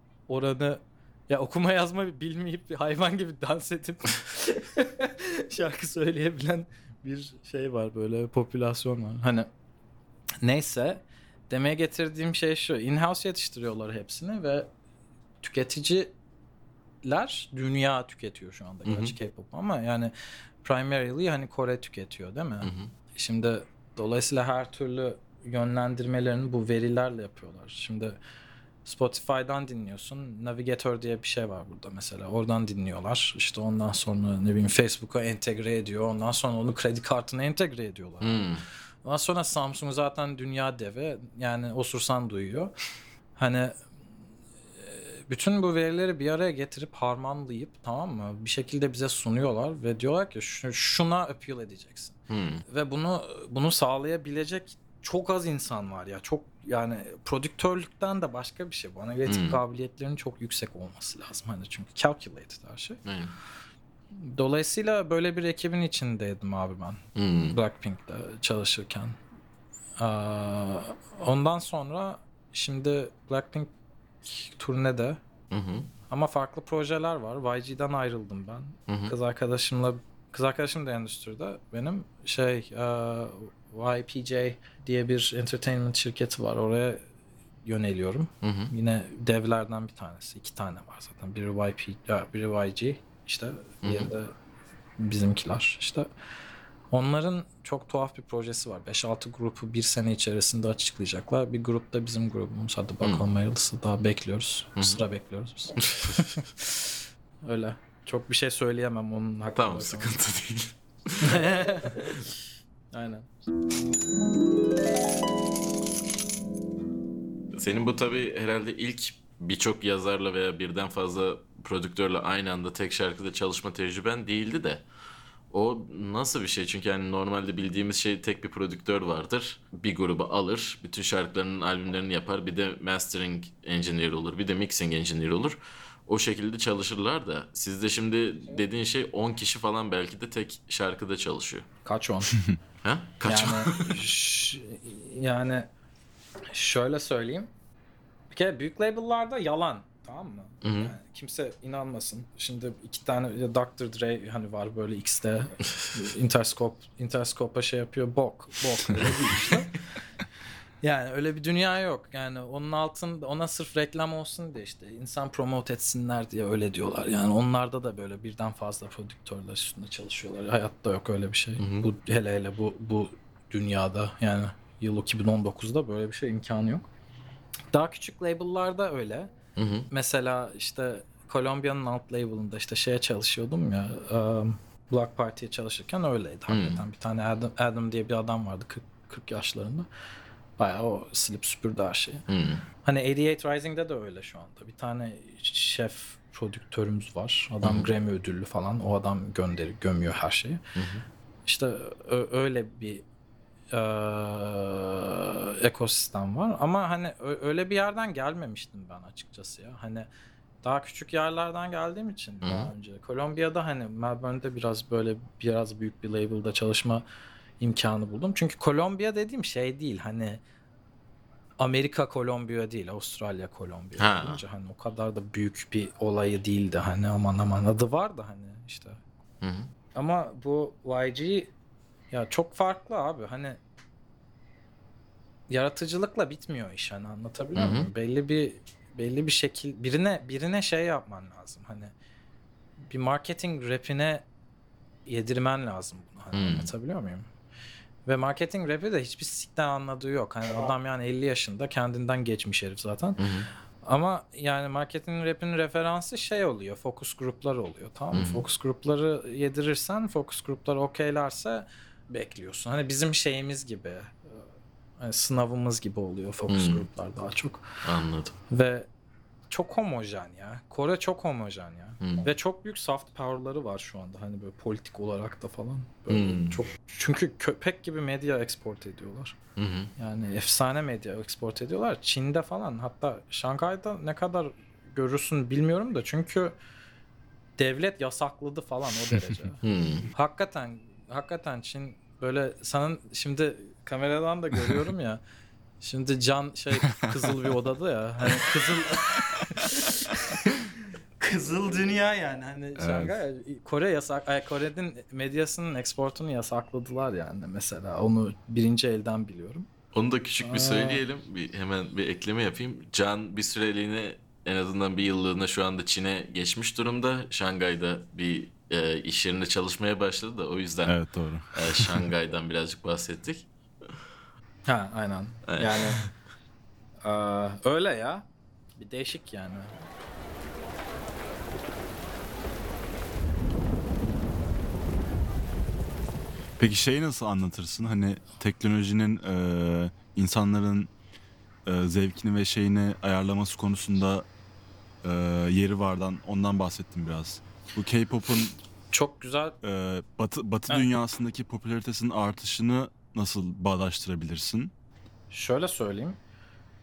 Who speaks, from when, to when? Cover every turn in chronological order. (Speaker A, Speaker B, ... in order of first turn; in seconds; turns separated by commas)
Speaker A: 0.3-9.5, Speaker A: 10.4-14.7, Speaker A: 15.4-16.1, Speaker A: 17.0-28.2, Speaker B: 18.9-19.1, Speaker B: 22.6-22.9, Speaker A: 28.8-38.4, Speaker B: 38.2-38.6, Speaker A: 39.0-42.7, Speaker A: 43.4-43.8, Speaker A: 44.8-63.0, Speaker B: 52.3-52.6, Speaker B: 59.3-59.6, Speaker B: 63.0-63.3, Speaker A: 64.1-69.2, Speaker B: 67.1-67.6, Speaker A: 70.0-73.7, Speaker A: 74.2-75.2, Speaker B: 75.5-75.9, Speaker A: 76.1-87.0, Speaker B: 78.9-79.1, Speaker A: 87.6-94.3, Speaker B: 88.4-88.7, Speaker B: 93.8-94.1, Speaker A: 95.0-96.1, Speaker A: 96.9-110.1, Speaker B: 104.8-105.0, Speaker B: 105.8-106.2, Speaker B: 109.5-111.4, Speaker A: 111.2-112.3, Speaker A: 112.9-113.3, Speaker B: 117.5-124.8, Speaker B: 125.5-141.7, Speaker A: 141.8-142.4, Speaker B: 142.8-144.0, Speaker A: 143.2-145.7, Speaker A: 146.5-147.5, Speaker A: 148.3-159.8, Speaker B: 150.6-150.9, Speaker A: 160.8-176.9, Speaker B: 171.6-171.9, Speaker A: 177.7-179.3, Speaker B: 179.6-179.9, Speaker A: 179.9-189.9, Speaker B: 186.5-186.8, Speaker A: 190.6-192.2, Speaker B: 192.3-192.6, Speaker A: 192.8-200.6, Speaker B: 197.6-197.9, Speaker B: 200.8-201.0, Speaker A: 201.4-203.0, Speaker A: 203.7-210.1, Speaker A: 210.6-217.0, Speaker B: 212.4-212.7, Speaker A: 217.6-220.4, Speaker A: 221.6-229.0, Speaker B: 224.0-224.4, Speaker B: 229.4-229.7, Speaker A: 229.9-231.5, Speaker A: 232.1-233.6, Speaker A: 235.5-241.9, Speaker B: 237.6-237.9, Speaker A: 242.9-244.2, Speaker A: 245.1-247.3, Speaker B: 246.3-246.7, Speaker A: 248.1-253.2, Speaker B: 253.2-253.5, Speaker A: 253.8-264.4, Speaker B: 258.1-258.4, Speaker A: 265.0-267.6, Speaker B: 266.5-266.8, Speaker B: 267.8-268.3, Speaker A: 268.5-268.9, Speaker A: 269.5-279.4, Speaker B: 272.0-272.2, Speaker B: 276.1-276.6, Speaker B: 279.6-279.9, Speaker A: 280.0-286.5, Speaker A: 287.6-289.6, Speaker B: 289.6-290.1, Speaker A: 290.1-295.2, Speaker A: 295.8-300.6, Speaker A: 301.2-309.7, Speaker C: 302.8-303.1, Speaker B: 309.9-320.9, Speaker A: 310.4-311.0, Speaker C: 320.8-322.1, Speaker B: 321.5-323.5, Speaker A: 324.6-326.0, Speaker B: 325.5-326.1, Speaker A: 327.0-329.7, Speaker C: 336.6-340.9, Speaker C: 341.6-344.2, Speaker C: 345.0-348.6, Speaker A: 348.9-349.6, Speaker C: 349.6-354.7, Speaker A: 355.3-356.2